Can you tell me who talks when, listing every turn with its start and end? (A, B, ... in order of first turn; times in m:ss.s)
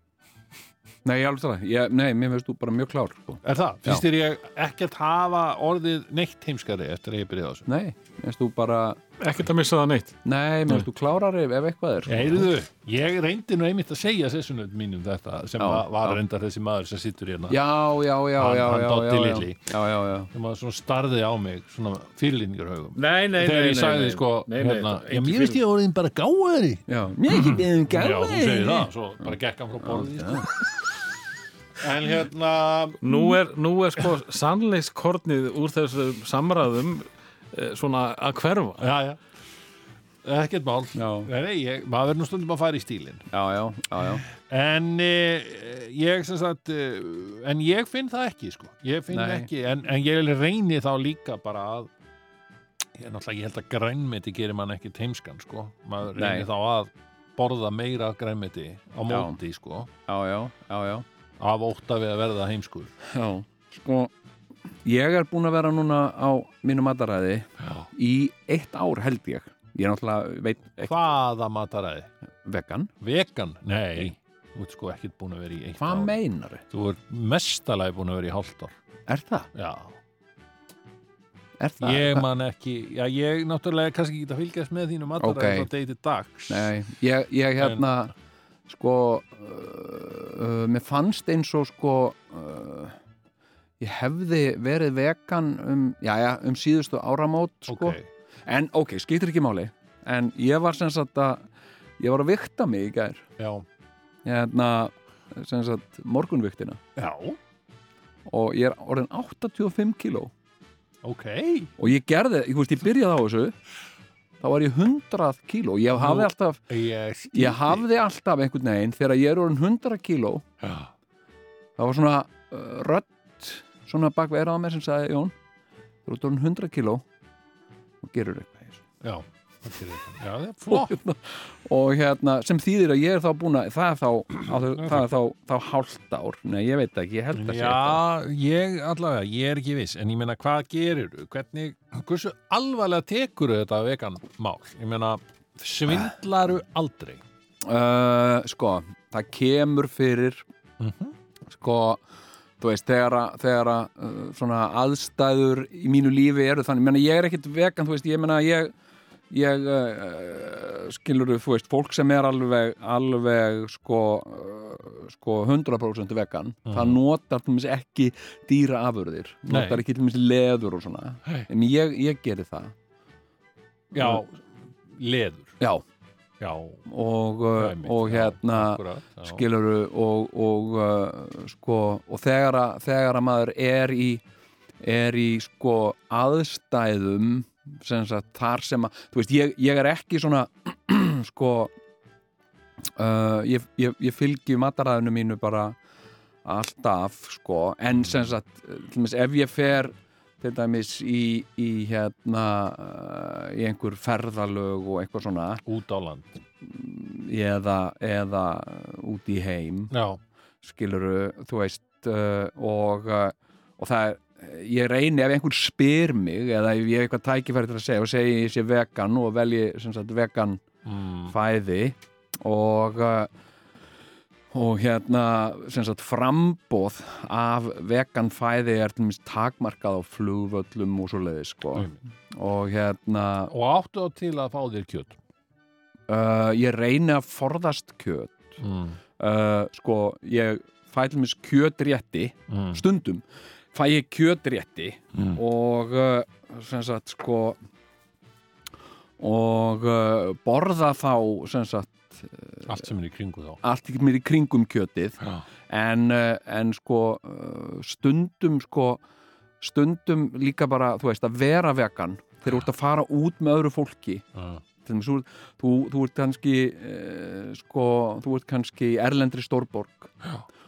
0:01.0-0:04.0 A
0:03.4-0:07.7 B
0:07.7-0:09.0 A
0:09.2-0:10.1 C
0:10.2-0:12.5 A
0:12.1-0:17.6 B
0:15.6-0:16.2 A
0:17.5-0:20.3 A
0:18.4-0:19.7 B
0:20.3-0:30.5 B
0:23.0-0:25.6 C
0:26.9-0:29.3 A
0:29.8-0:30.5 A
0:31.8-0:33.1 B
0:33.0-0:38.9 C
0:38.8-0:39.2 B
0:40.2-0:43.3 B
0:41.0-0:41.3 A
0:43.3-0:44.2 A
0:44.3-0:51.9 B
0:49.1-0:49.5 A
0:53.0-0:59.9 B
0:56.1-0:56.5 A
0:59.1-0:59.4 A
1:00.1-1:01.0 A
1:01.4-1:02.9 B
1:03.1-1:04.1 A
1:04.8-1:10.9 A
1:07.6-1:07.9 B
1:10.8-1:12.1 B
1:12.4-1:12.9 A
1:13.0-1:16.1 B
1:15.8-1:16.6 A
1:16.7-1:18.7 B
1:19.1-1:19.5 A
1:19.5-1:19.9 B
1:21.6-1:22.2 A
1:21.8-1:26.7 B
1:25.2-1:25.7 A
1:26.5-1:28.1 A
1:28.7-1:33.0 A
1:33.8-1:41.4 A
1:37.7-1:38.0 B
1:42.0-1:43.2 A
1:43.4-1:43.6 B
1:44.2-1:46.8 A
1:47.0-1:47.4 B
1:48.2-1:50.3 A
1:51.0-1:51.7 B
1:51.8-1:53.5 A
1:54.4-1:56.6 A
1:56.0-1:57.8 B
1:57.3-2:00.4 A
2:00.6-2:00.9 B
2:01.8-2:05.3 A
2:06.0-2:07.0 A
2:08.0-2:08.8 A
2:09.0-2:11.0 B
2:10.7-2:18.0 A
2:14.8-2:15.0 B
2:17.3-2:27.2 B
2:27.6-2:30.4 A
2:30.8-2:31.1 B
2:31.5-2:32.0 A
2:32.6-2:38.7 A
2:39.3-2:52.7 A
2:46.7-2:47.0 B
2:49.5-2:49.8 B
2:53.9-2:55.6 B
2:53.9-2:54.2 A
2:56.4-2:56.9 B
2:56.9-3:04.2 A
2:57.6-2:59.4 B
3:04.8-3:11.7 A
3:13.0-3:15.8 A
3:16.4-3:25.6 A
3:18.0-3:18.3 B
3:25.6-3:26.4 B
3:26.6-3:29.9 A
3:29.9-3:30.2 B
3:30.6-3:40.6 A
3:40.8-3:41.3 B
3:41.3-3:43.3 A
3:44.5-3:53.5 A
3:53.5-3:55.2 B
3:56.1-3:58.6 A
3:58.6-3:59.0 B
3:59.2-4:03.2 A
4:02.5-4:02.8 B
4:03.7-4:07.6 A
4:05.1-4:05.4 B
4:09.2-4:12.7 A
4:12.7-4:13.6 B
4:13.6-4:15.2 A
4:15.7-4:19.0 A
4:19.6-4:24.2 A
4:24.3-4:24.6 B
4:24.8-4:30.1 A